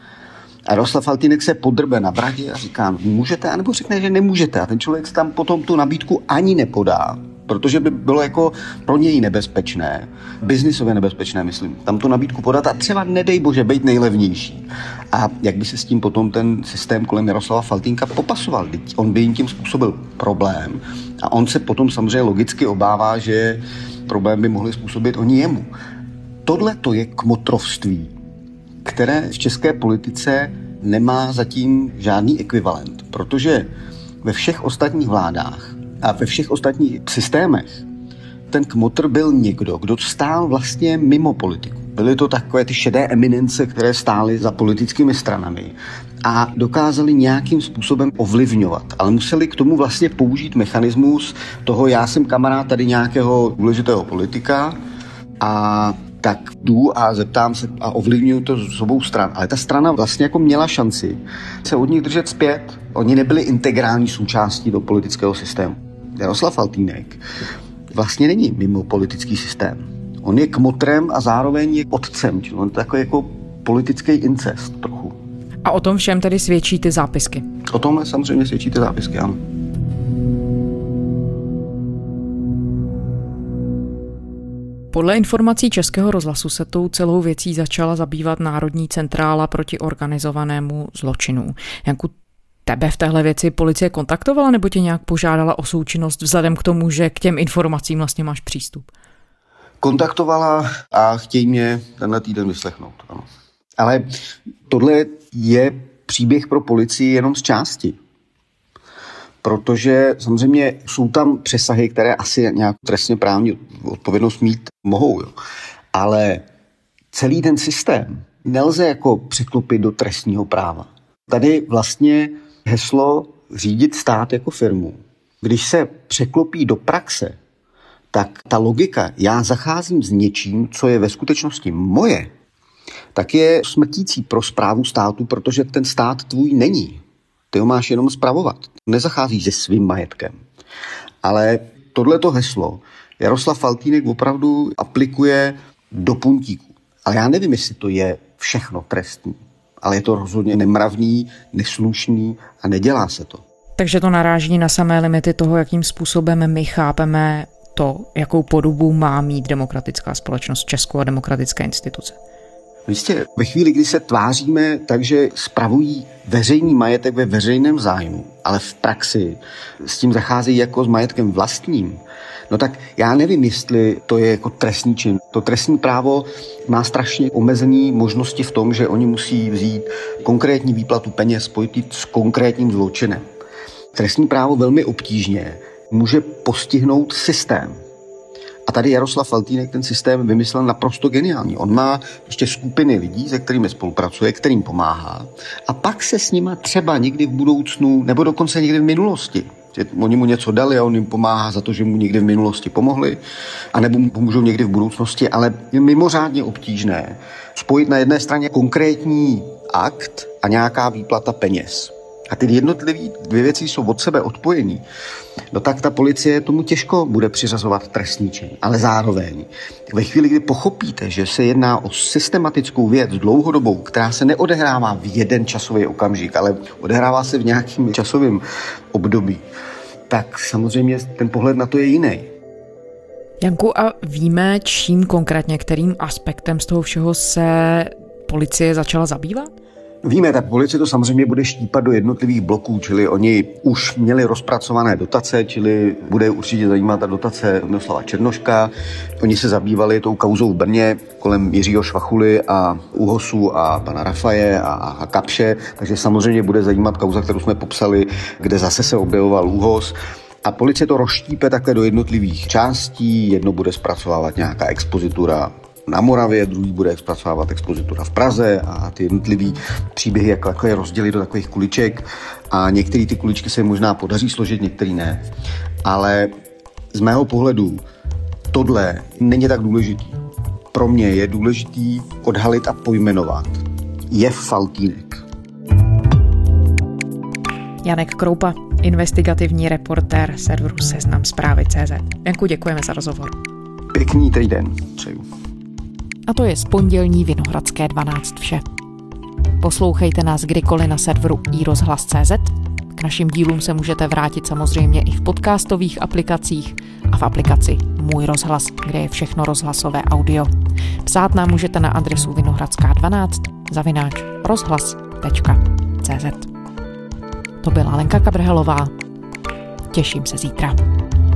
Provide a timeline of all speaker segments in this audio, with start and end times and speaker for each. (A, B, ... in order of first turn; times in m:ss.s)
0:00.6-0:25.7 A
0:26.4-0:28.1 A
0:28.8-0:33.7 A
0:34.2-0:37.8 A
0:38.5-0:54.8 A
0:55.4-1:07.2 A
1:07.9-1:15.2 A
1:15.6-1:17.4 B
1:17.7-1:19.4 A
1:24.9-1:32.1 B
1:32.6-1:38.9 B
1:39.8-1:43.2 A
1:43.8-1:44.1 A
1:44.7-1:48.0 A
1:49.4-1:55.3 A
1:55.9-1:56.4 A
1:57.1-2:07.4 A
2:08.1-2:12.3 A
2:13.1-2:17.0 A
2:17.5-2:20.4 A
2:21.2-2:33.4 A
2:33.8-2:42.2 B
2:42.9-3:03.2 A
3:03.9-3:07.8 A
3:08.6-3:23.2 A
3:23.7-3:34.8 A
3:35.5-3:49.4 A
3:50.1-3:52.3 A
3:53.4-3:59.5 B
4:00.0-4:35.2 A
4:35.8-4:36.3 A
4:36.9-4:37.8 A
4:38.5-4:40.2 A
4:40.7-4:45.2 A
4:47.8-4:53.3 B
4:53.9-4:55.2 A
4:56.3-4:58.6 B
4:59.6-5:10.5 B
5:11.0-5:16.5 B
5:17.6-5:18.9 B
5:19.9-5:20.7 B